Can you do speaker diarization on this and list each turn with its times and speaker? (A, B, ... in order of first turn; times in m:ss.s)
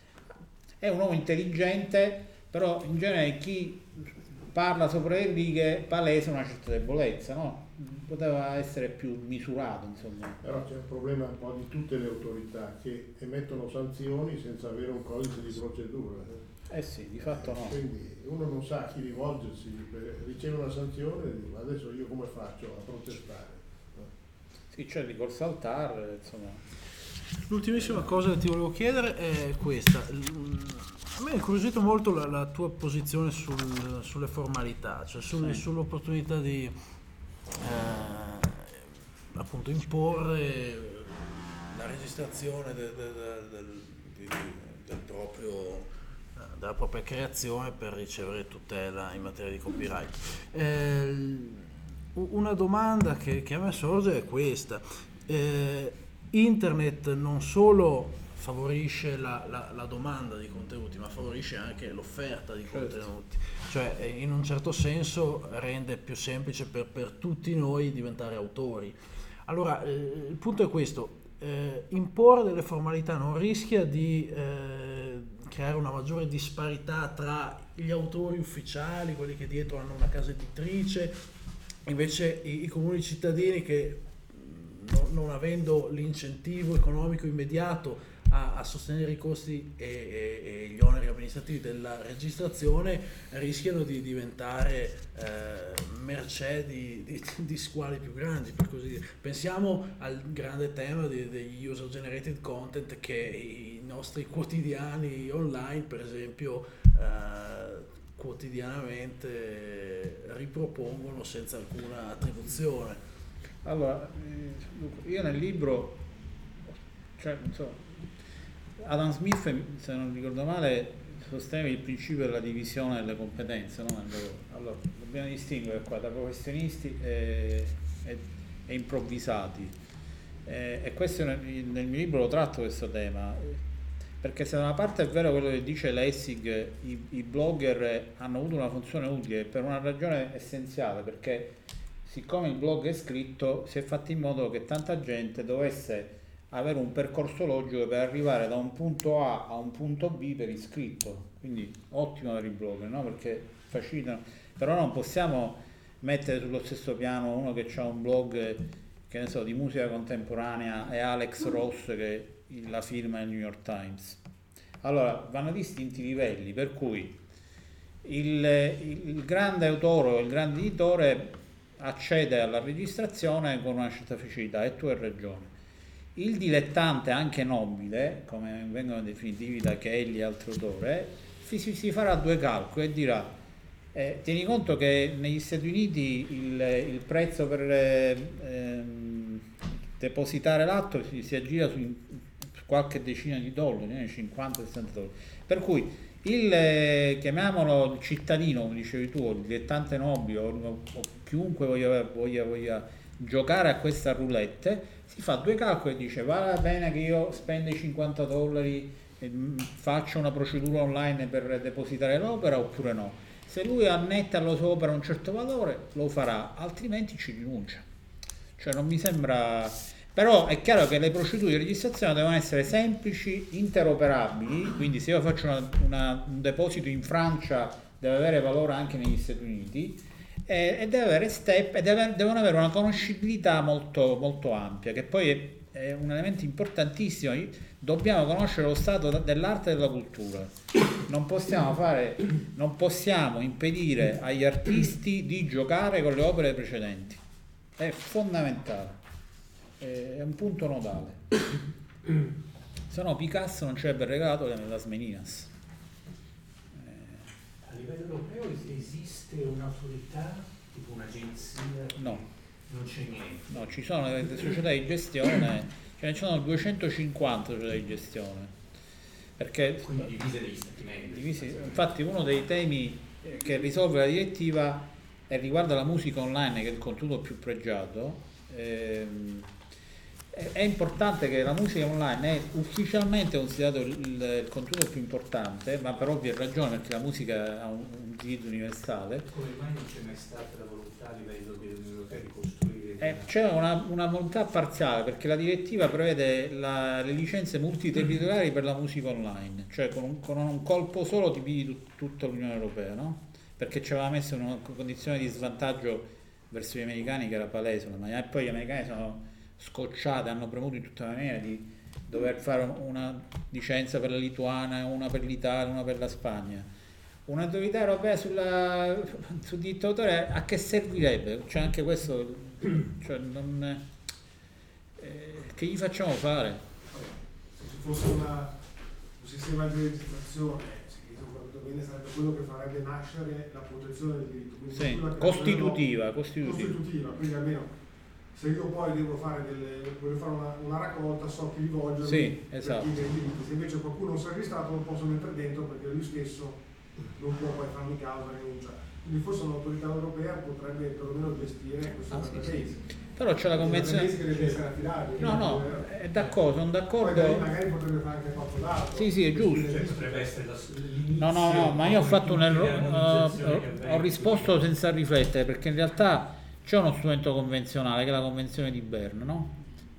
0:00.8-0:03.8 A
0:04.5-0:10.4 A
0:10.4-0:16.5 B
0:16.7-0:17.8 A
0:17.2-0:24.1 B
0:24.7-0:26.6 A
0:27.5-0:36.8 C
0:37.6-1:21.2 C
1:02.7-1:03.1 A
1:21.9-1:53.0 C
1:53.6-1:56.0 A
1:57.2-1:58.0 A
1:58.8-2:09.8 A
2:10.4-2:13.6 A
2:14.2-2:44.2 A
2:44.8-2:47.2 A
2:48.0-2:55.5 A
2:56.2-3:03.4 A
3:03.9-3:09.5 A
3:10.0-3:37.8 A
3:38.6-4:00.5 A
4:01.1-4:07.2 A
4:07.8-4:09.0 A
4:09.8-4:11.2 A
4:12.9-4:15.5 A
4:16.8-4:17.3 A
4:17.6-4:23.6 D
4:22.0-4:22.2 A
4:23.5-4:28.5 A
4:29.4-4:30.1 A
4:29.8-4:31.9 D
4:31.0-4:39.5 A
4:40.3-4:49.3 A
4:49.3-4:53.3 D
4:53.0-5:16.7 A
5:17.3-5:23.9 A
5:25.0-5:26.6 A
5:26.9-5:28.6 E
5:29.2-5:37.8 E
5:34.7-5:36.8 A
5:38.3-5:46.6 E
5:42.0-5:42.9 A
5:47.1-5:52.8 E
5:52.1-5:54.6 A
5:53.5-5:55.9 E
5:55.2-5:57.5 A
5:57.0-6:00.4 E
5:58.9-5:59.7 A
5:59.6-6:04.7 D
6:01.2-6:09.6 A